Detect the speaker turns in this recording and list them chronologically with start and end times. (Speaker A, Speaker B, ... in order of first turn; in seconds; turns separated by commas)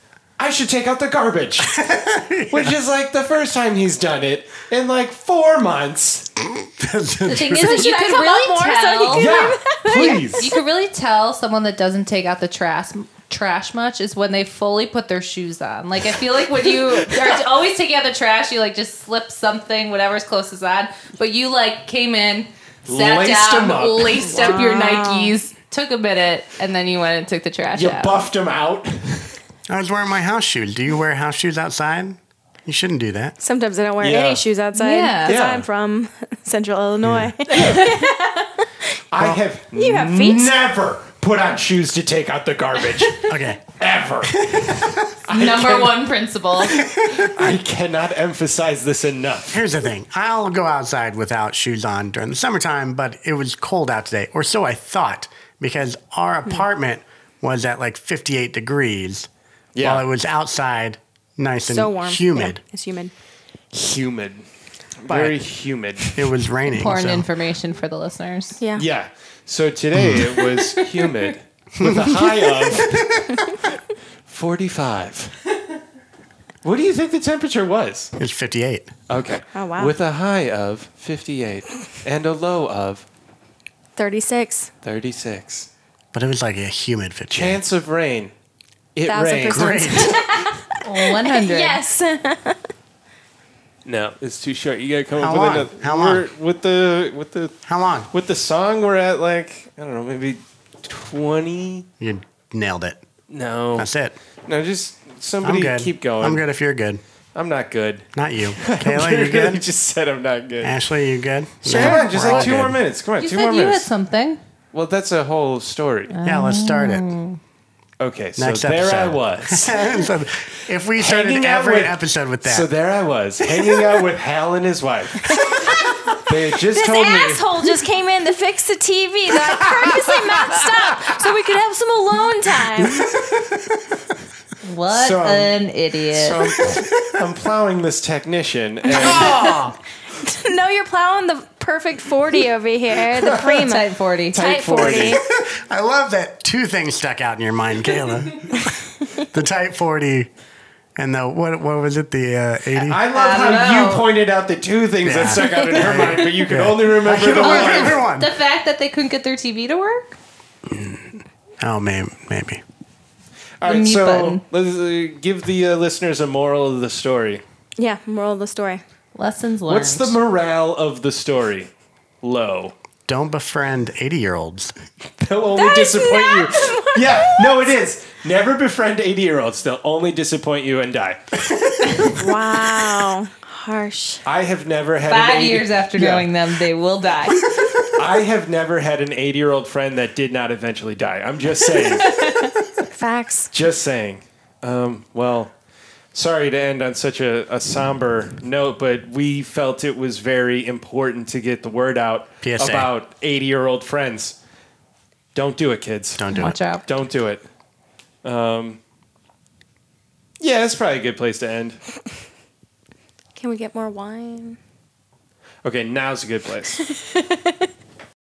Speaker A: 0.4-1.7, Speaker B: 1.6-2.7, Speaker A: 2.5-6.3, Speaker B: 6.6-7.9, Speaker C: 7.2-9.3, Speaker D: 7.6-10.5, Speaker A: 9.1-10.5, Speaker C: 10.0-28.3, Speaker A: 22.9-24.6, Speaker D: 24.2-25.4, Speaker A: 27.7-29.4, Speaker B: 29.7-33.4, Speaker D: 33.4-38.7, Speaker A: 34.0-34.5, Speaker C: 34.7-35.3, Speaker A: 35.2-35.7, Speaker B: 37.0-37.3, Speaker A: 37.5-37.8, Speaker C: 37.6-38.0, Speaker A: 39.1-44.8, Speaker D: 39.7-40.5, Speaker B: 43.3-43.7, Speaker B: 44.2-45.2, Speaker A: 45.3-46.1, Speaker C: 45.3-46.8, Speaker A: 47.1-49.6, Speaker B: 49.5-59.3, Speaker A: 59.7-60.1, Speaker B: 59.8-62.6, Speaker D: 61.7-63.1, Speaker A: 63.7-64.4, Speaker A: 65.0-66.2, Speaker B: 65.1-65.4, Speaker B: 66.1-67.3, Speaker C: 66.7-68.6, Speaker D: 68.6-68.8, Speaker A: 68.8-73.8, Speaker B: 69.9-70.3, Speaker C: 70.4-71.3, Speaker B: 71.8-72.3, Speaker A: 74.3-75.3, Speaker A: 76.6-78.1, Speaker B: 78.2-78.9, Speaker A: 79.1-83.0, Speaker D: 79.5-80.0, Speaker D: 84.0-84.7, Speaker A: 84.8-85.7, Speaker B: 86.1-87.6, Speaker A: 87.3-88.3, Speaker A: 89.0-90.1, Speaker D: 89.0-92.6, Speaker B: 89.4-90.2, Speaker C: 90.8-91.8, Speaker A: 93.8-97.5, Speaker B: 95.2-96.2, Speaker B: 97.7-98.1, Speaker A: 98.1-101.8, Speaker B: 102.0-103.0, Speaker A: 103.3-103.9, Speaker B: 103.8-104.2, Speaker A: 104.5-106.5, Speaker B: 105.4-107.0, Speaker A: 107.3-108.1, Speaker B: 108.1-109.6, Speaker A: 108.6-110.8, Speaker B: 110.6-112.8, Speaker A: 111.6-113.9, Speaker C: 111.7-112.6, Speaker C: 113.2-114.4, Speaker A: 114.7-116.1, Speaker C: 116.1-117.4, Speaker B: 116.2-117.1, Speaker A: 118.0-119.8, Speaker B: 118.4-122.7, Speaker A: 121.0-125.4, Speaker A: 126.2-127.7, Speaker D: 126.7-133.0, Speaker C: 134.6-136.4, Speaker A: 134.9-135.6, Speaker A: 136.1-139.7, Speaker D: 138.9-139.6, Speaker B: 138.9-139.7, Speaker D: 140.2-145.2, Speaker C: 143.4-144.6, Speaker A: 144.3-145.2, Speaker B: 144.9-150.3, Speaker B: 150.9-153.0, Speaker A: 152.8-158.0, Speaker C: 153.1-154.1, Speaker B: 155.0-158.3, Speaker C: 157.3-160.2, Speaker B: 160.7-162.6, Speaker A: 163.6-167.4, Speaker C: 163.6-164.4, Speaker D: 167.8-168.8, Speaker C: 169.1-170.2, Speaker A: 169.7-171.7, Speaker A: 172.2-172.7, Speaker B: 173.1-174.7, Speaker A: 175.2-181.4, Speaker D: 175.5-177.6, Speaker D: 182.1-184.2, Speaker A: 184.2-186.3, Speaker C: 185.1-187.4, Speaker A: 187.9-192.0, Speaker C: 191.8-192.5, Speaker D: 192.9-193.5, Speaker A: 193.5-195.5, Speaker A: 196.1-204.4, Speaker B: 202.4-202.9, Speaker A: 205.3-207.4, Speaker B: 206.2-206.6, Speaker C: 206.3-206.8, Speaker A: 208.2-208.8, Speaker A: 210.4-211.8, Speaker D: 213.3-214.6, Speaker A: 215.6-216.8